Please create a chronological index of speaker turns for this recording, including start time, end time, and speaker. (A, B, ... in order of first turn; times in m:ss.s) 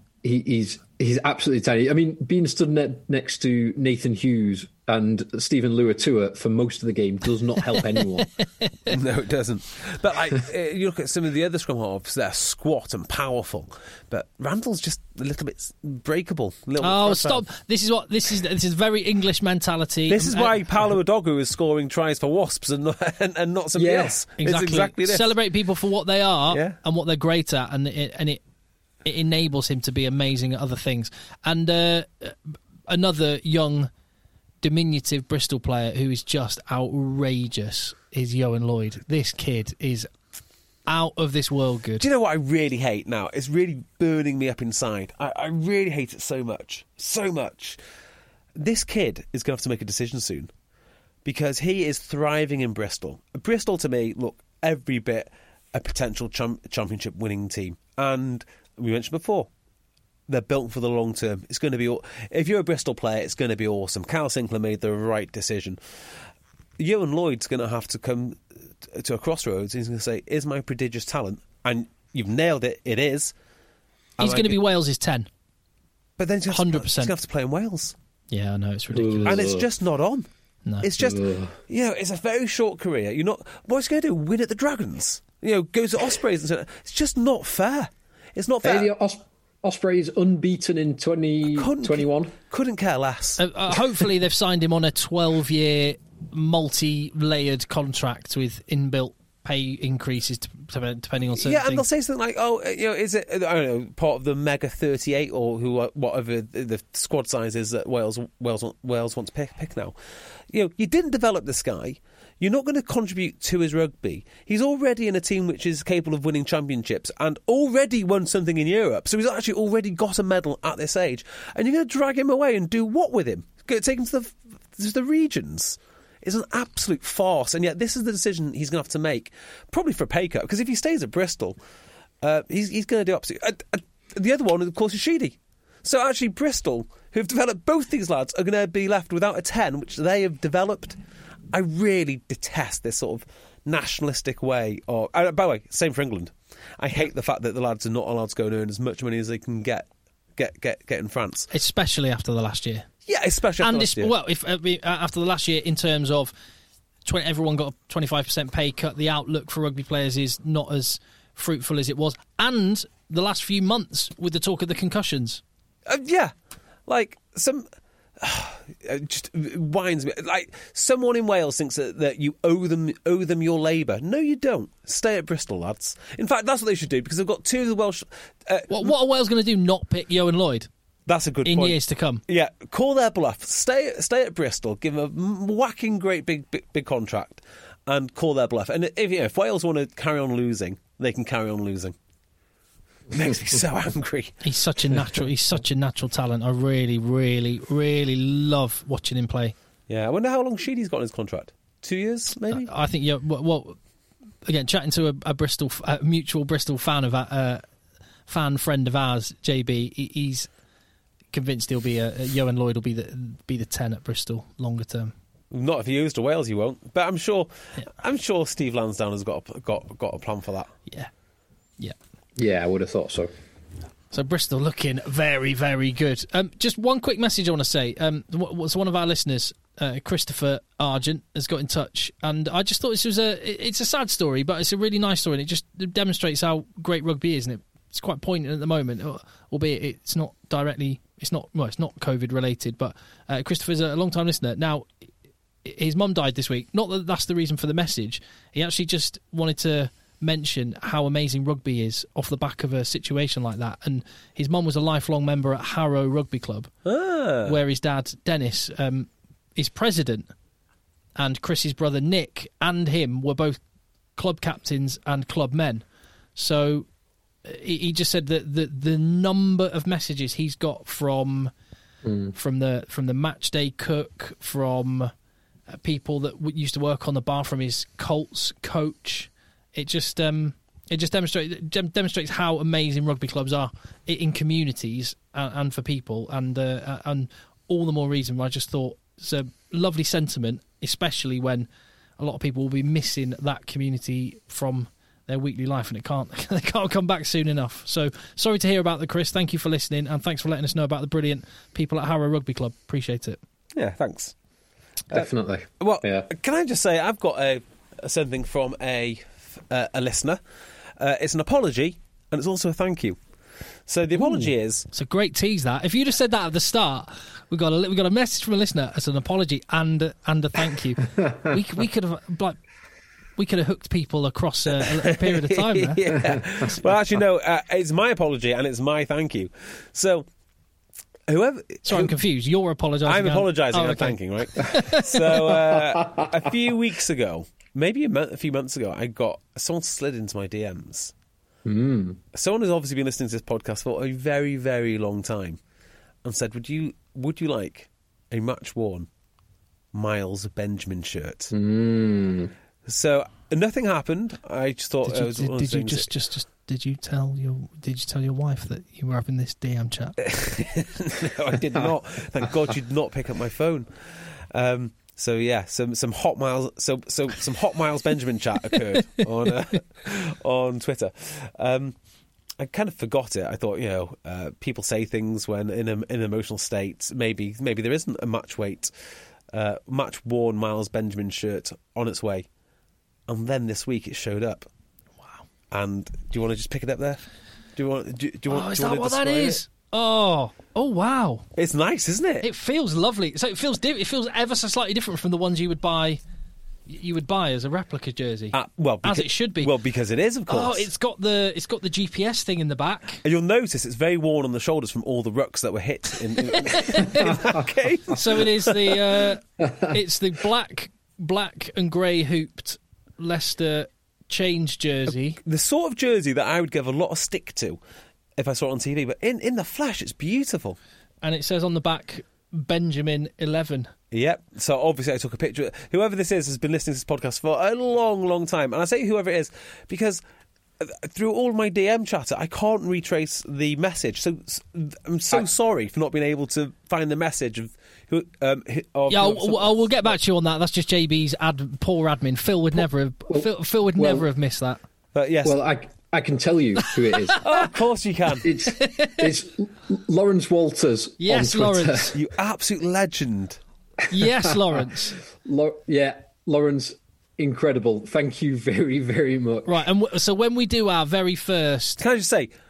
0:00.2-0:08.3 A
0:08.4-0:08.9 B
0:08.9-0:17.4 C
0:16.8-0:20.6 B
0:20.1-0:25.3 C
0:23.7-0:24.2 A
0:24.4-0:28.4 B
0:26.5-0:26.8 C
0:29.0-0:33.9 B
0:34.6-0:40.1 B
0:40.9-0:42.0 B
0:42.0-0:47.8 C
0:48.6-0:50.5 C
0:51.2-0:59.5 C
1:00.3-1:05.8 C
1:06.8-1:13.3 C
1:14.2-1:14.6 C
1:14.2-1:15.3 B
1:16.2-1:17.9 C
1:16.5-1:17.1 B
1:18.3-1:19.4 B
1:18.9-1:19.6 A
1:19.2-1:20.3 C
1:20.8-1:28.9 C
1:21.0-1:21.6 A
1:28.6-1:32.3 A
1:31.5-1:33.4 C
1:33.4-1:41.8 B
1:41.3-1:50.0 C
1:50.5-2:11.6 C
2:12.2-2:21.0 C
2:21.5-2:31.5 C
2:31.5-2:32.9 B
2:33.1-2:34.1 C
2:33.6-2:36.3 B
2:37.0-2:45.4 B
2:45.9-2:46.3 C
2:46.9-2:47.7 C
2:48.2-2:58.9 C
2:58.7-3:00.7 B
3:01.1-3:11.9 C
3:01.4-3:02.2 B
3:13.1-3:15.0 C
3:14.4-3:19.6 B
3:19.9-3:22.7 C
3:22.5-3:23.8 B
3:24.4-3:27.6 B
3:28.3-3:30.5 B
3:31.3-3:35.1 B
3:35.5-3:40.7 C
3:42.4-3:43.3 A
3:44.1-4:04.9 B
4:05.6-4:16.7 B
4:16.8-4:17.6 C
4:17.4-4:20.3 B
4:21.2-4:23.6 B
4:24.2-4:25.8 B
4:26.4-4:26.9 B
4:27.4-4:31.5 B
4:32.0-4:32.3 A
4:32.3-4:35.1 B
4:35.7-4:51.7 B
4:52.2-5:03.4 B
5:03.7-5:04.3 C
5:05.1-5:06.3 A
5:05.8-5:10.4 C
5:11.0-5:13.2 C
5:13.9-5:14.9 C
5:14.2-5:22.6 B
5:21.2-5:21.5 A
5:23.4-5:26.0 B
5:25.0-5:30.3 C
5:31.3-5:32.1 C
5:31.8-5:35.6 B
5:33.0-5:41.1 C
5:41.6-5:42.2 A
5:42.3-5:45.6 C
5:46.2-5:49.1 C
5:49.9-5:51.5 C
5:51.5-5:52.5 A
5:52.8-5:56.1 C
5:55.0-6:00.1 B
6:00.2-6:11.9 C
6:08.7-6:09.2 B
6:12.6-6:18.9 C
6:19.5-6:22.4 C
6:23.3-6:24.7 C
6:25.7-6:27.2 C
6:27.8-6:29.6 C
6:28.5-6:31.4 B
6:31.6-6:32.4 C
6:32.4-6:36.2 B
6:36.9-6:39.7 B
6:38.5-6:40.8 C
6:40.5-6:43.2 B
6:43.2-6:49.0 C
6:46.5-6:47.4 B
6:48.1-6:55.4 B
6:49.6-6:50.0 A
6:55.4-6:57.8 C
6:58.4-7:00.8 C
7:01.2-7:03.9 B
7:04.1-7:10.2 C
7:10.8-7:20.1 C
7:19.1-7:24.8 B
7:23.3-7:24.3 A
7:25.1-7:25.6 C
7:25.4-7:27.4 A
7:27.1-7:27.6 B
7:27.4-7:28.5 C
7:28.4-7:32.1 A
7:28.7-7:29.2 B
7:31.2-7:32.2 B
7:32.1-7:33.6 C
7:34.1-7:35.2 B
7:34.2-7:34.8 A
7:35.3-7:39.8 A
7:39.6-7:42.0 B
7:42.0-7:42.5 C